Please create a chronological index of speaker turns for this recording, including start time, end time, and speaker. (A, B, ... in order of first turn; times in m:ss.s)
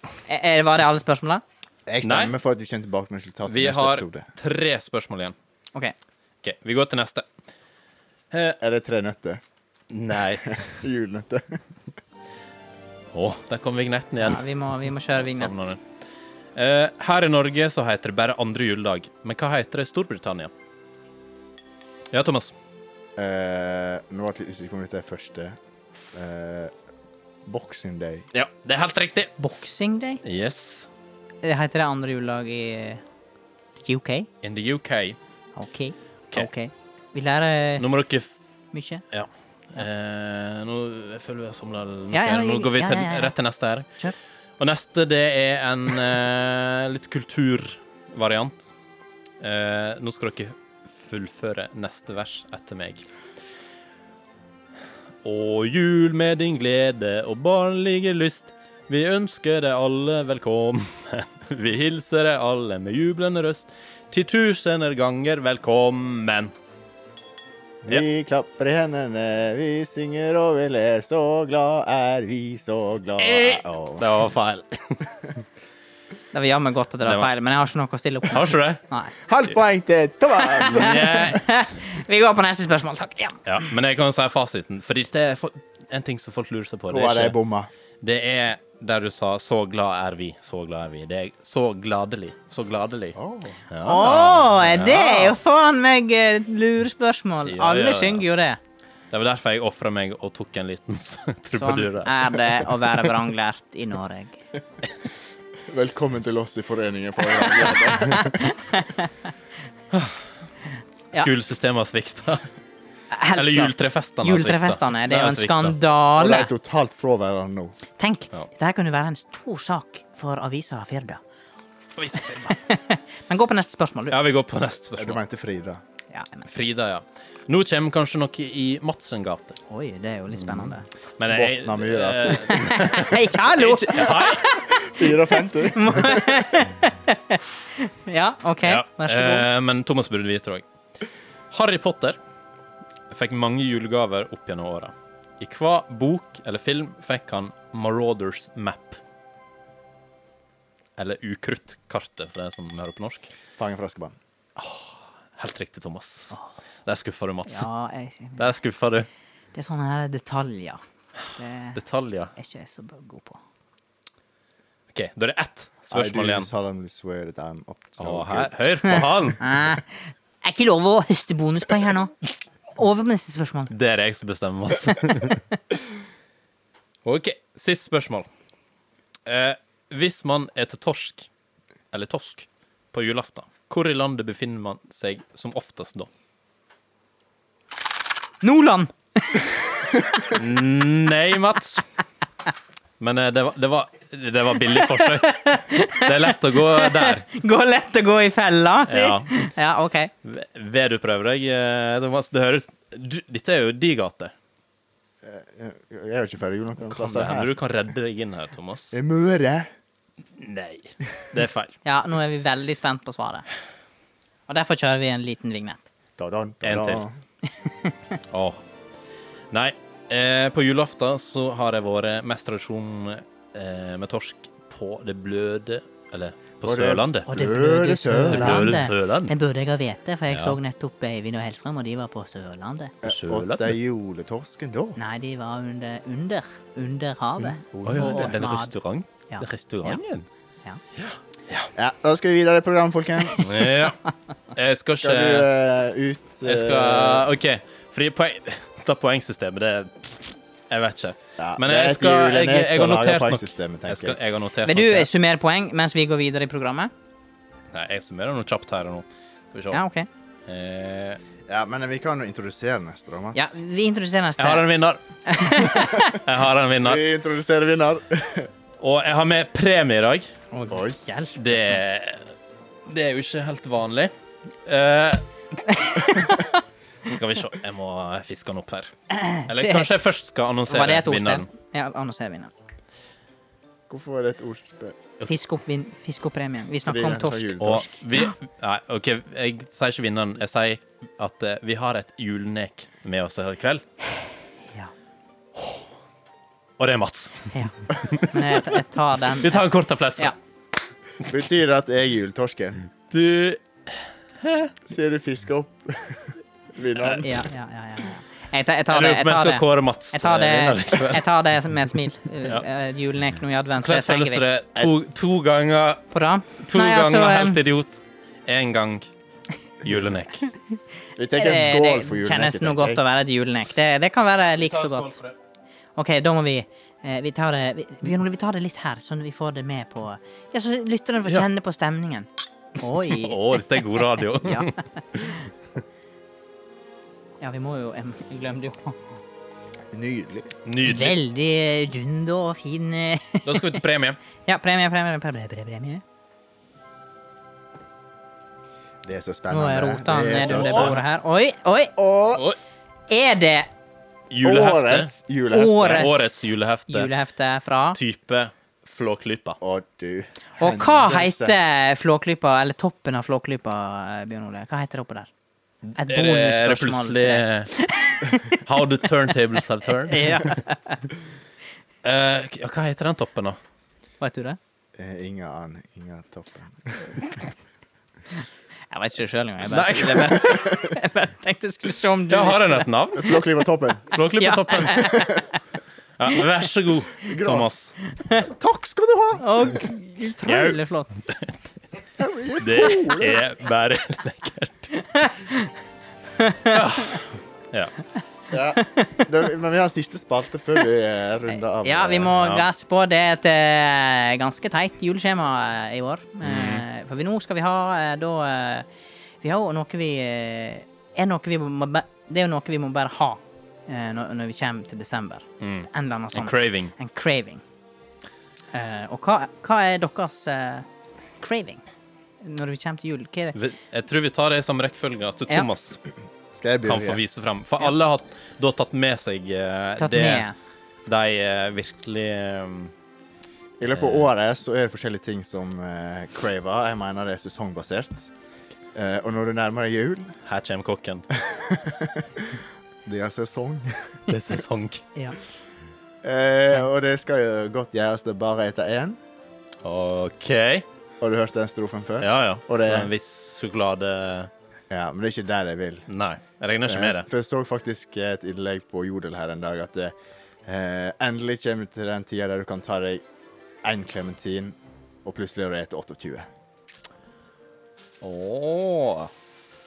0:00.3-0:01.4 A
0:01.9-0:04.2 B
0:02.0-0:02.3 C
0:03.5-0:05.4 C
0:06.4-0:07.3 C
0:08.3-0:08.6 C
0:08.6-0:09.4 B
0:09.9-0:10.6 C
0:10.5-0:11.6 B
0:13.1-0:14.4 C
0:14.2-0:15.7 A
0:15.1-0:15.8 C
0:16.6-0:20.5 C
0:22.1-0:22.5 C
0:23.2-0:25.6 B
0:26.1-0:26.7 B
0:27.5-0:28.3 B
0:28.3-0:29.4 C
0:29.4-0:30.2 A
0:30.2-0:30.9 C
0:31.4-0:33.0 A
0:33.8-0:34.3 A
0:34.4-0:35.2 C
0:35.6-0:37.8 A
0:37.8-0:38.4 C
0:38.7-0:39.0 A
0:39.1-0:43.9 C
0:42.1-0:43.4 A
0:44.6-0:48.7 C
0:49.4-0:53.0 C
0:55.2-1:06.5 C
1:07.8-1:14.1 B
1:13.2-1:15.3 C
1:16.3-1:19.1 A
1:17.0-1:17.3 C
1:18.3-1:18.8 C
1:19.3-1:21.4 B
1:20.5-1:23.4 A
1:20.6-1:21.5 C
1:23.5-1:27.4 C
1:26.9-1:27.7 B
1:28.0-1:33.2 C
1:33.2-1:33.6 B
1:33.7-1:35.4 C
1:33.8-1:38.6 A
1:37.5-1:38.3 C
1:39.1-1:43.2 C
1:41.5-1:44.4 A
1:45.7-1:48.4 B
1:47.4-1:49.1 A
1:51.1-1:52.4 C
1:53.1-1:56.5 A
1:53.4-1:55.8 C
1:56.2-1:57.8 B
1:58.0-2:01.2 A
2:02.0-2:02.6 C
2:02.1-2:04.2 A
2:04.1-2:05.2 C
2:05.0-2:05.8 B
2:06.1-2:06.5 A
2:06.5-2:09.6 C
2:09.7-2:10.8 A
2:10.3-2:14.5 C
2:11.3-2:13.0 B
2:12.5-2:19.5 A
2:14.7-2:16.5 B
2:18.6-2:20.6 C
2:21.5-2:22.2 C
2:23.1-2:29.0 C
2:31.0-2:33.3 C
2:33.6-2:34.2 B
2:34.6-2:36.3 C
2:36.9-2:37.7 C
2:37.5-2:38.5 A
2:38.4-2:39.1 C
2:39.5-2:40.8 A
2:41.4-2:41.8 A
2:41.8-2:42.3 C
2:42.4-2:43.4 A
2:44.9-2:46.5 C
2:45.9-2:49.0 B
2:48.0-2:49.4 C
2:48.8-2:52.1 A
2:52.8-2:53.7 A
2:53.7-2:55.4 C
2:57.0-2:58.3 C
2:59.3-3:01.3 C
3:01.9-3:06.1 C
3:08.4-3:10.3 A
3:10.2-3:11.8 C
3:13.0-3:17.3 C
3:14.8-3:20.1 A
3:18.9-3:19.3 C
3:20.2-3:24.3 C
3:25.2-3:27.5 B
3:26.9-3:29.0 C
3:28.9-3:29.7 B
3:30.4-3:31.7 C
3:31.8-3:33.4 A
3:34.5-3:35.8 A
3:36.2-3:37.2 B
3:36.6-3:37.0 C
3:37.6-3:38.0 A
3:38.3-3:38.6 C
3:39.5-3:47.3 C
3:46.6-3:48.7 B
3:47.3-3:52.9 A
3:48.2-3:49.3 C
3:50.3-3:50.6 C
3:53.0-3:55.0 B
3:53.0-3:53.8 C
3:55.0-3:58.7 A
3:57.6-3:58.4 B
3:57.8-4:00.3 C
3:59.3-4:00.0 A
4:01.0-4:01.7 C
4:01.8-4:03.6 B
4:03.4-4:04.0 C
4:04.5-4:05.5 C
4:04.9-4:07.3 B
4:06.4-4:15.1 C
4:11.4-4:14.2 B
4:14.6-4:16.9 A
4:17.7-4:19.8 C
4:19.7-4:20.1 A
4:20.5-4:21.2 C
4:21.5-4:23.5 B
4:23.3-4:24.7 A
4:24.4-4:27.0 C
4:25.3-4:26.2 A
4:26.8-4:28.5 B
4:28.8-4:30.3 C
4:30.5-4:31.8 A
4:30.7-4:31.0 B
4:31.4-4:32.3 C
4:32.9-4:34.1 C
4:34.6-4:36.4 C
4:35.7-4:36.6 A
4:37.1-4:38.9 C
4:39.1-4:39.9 A
4:39.5-4:41.5 C
4:40.7-4:42.5 A
4:43.9-4:45.0 B
4:45.3-4:47.6 A
4:46.9-4:47.9 B
4:47.6-4:53.8 C
4:56.8-4:57.5 C
4:57.5-4:59.6 A
4:58.0-4:58.8 C
4:59.4-5:00.4 C
5:01.2-5:02.9 B
5:03.1-5:04.7 C
5:04.9-5:07.4 B
5:07.0-5:07.3 C
5:07.2-5:14.4 A
5:08.9-5:11.2 C
5:13.7-5:16.0 C
5:16.1-5:17.6 A
5:16.6-5:19.1 C
5:19.8-5:20.5 C
5:21.2-5:23.0 B
5:21.4-5:25.2 A
5:24.6-5:25.3 C
5:26.0-5:35.4 A
5:33.0-5:35.4 C
5:37.4-5:39.0 A
5:39.9-5:40.5 B
5:40.7-5:41.2 C
5:40.8-5:43.8 A
5:43.5-5:44.2 C
5:44.5-5:46.0 A
5:49.0-5:51.0 B
5:49.5-5:52.0 A
5:50.4-5:51.0 C
5:52.0-5:52.5 B
5:53.1-5:53.7 A
5:54.3-5:55.1 C
5:54.4-5:56.1 B
5:55.5-5:58.0 A
5:55.8-5:57.1 C
5:58.0-5:59.6 C
5:59.6-6:01.6 B
6:00.6-6:05.3 A
6:05.9-6:07.7 C
6:06.0-6:08.6 A
6:08.5-6:10.6 C
6:10.1-6:11.0 A
6:12.0-6:13.6 C
6:14.2-6:14.6 A
6:15.0-6:17.2 B
6:18.9-6:22.9 A
6:19.7-6:20.6 C
6:22.3-6:23.4 C
6:23.2-6:24.1 B
6:24.1-6:25.3 C
6:24.4-6:25.5 A
6:26.2-6:27.9 C
6:27.2-6:27.7 B
6:28.1-6:28.5 A
6:28.4-6:29.5 B
6:29.4-6:31.1 A
6:30.4-6:31.5 C
6:32.2-6:33.4 B
6:32.6-6:34.9 C
6:35.0-6:35.7 A
6:36.4-6:37.2 A
6:36.7-6:37.9 C
6:38.5-6:42.6 B
6:38.8-6:39.3 A
6:41.8-6:48.9 A
6:46.4-6:46.8 C
6:49.4-6:57.6 A
6:55.6-6:57.0 C
6:58.7-7:00.9 A
7:01.4-7:01.8 A
7:02.4-7:03.6 A
7:03.6-7:06.0 C
7:06.6-7:07.2 B
7:06.8-7:10.5 C
7:10.0-7:10.6 A
7:11.1-7:12.9 C
7:13.8-7:18.3 B
7:14.0-7:14.2 C
7:19.0-7:20.4 B
7:20.5-7:21.3 C
7:21.3-7:24.2 B
7:24.3-7:25.0 C
7:26.2-7:29.2 B
7:29.8-7:30.8 C
7:31.2-7:33.1 B
7:32.2-7:34.5 C
7:34.9-7:36.1 B
7:36.1-7:37.3 C
7:36.8-7:43.2 B
7:43.8-7:46.5 B
7:48.2-7:49.3 C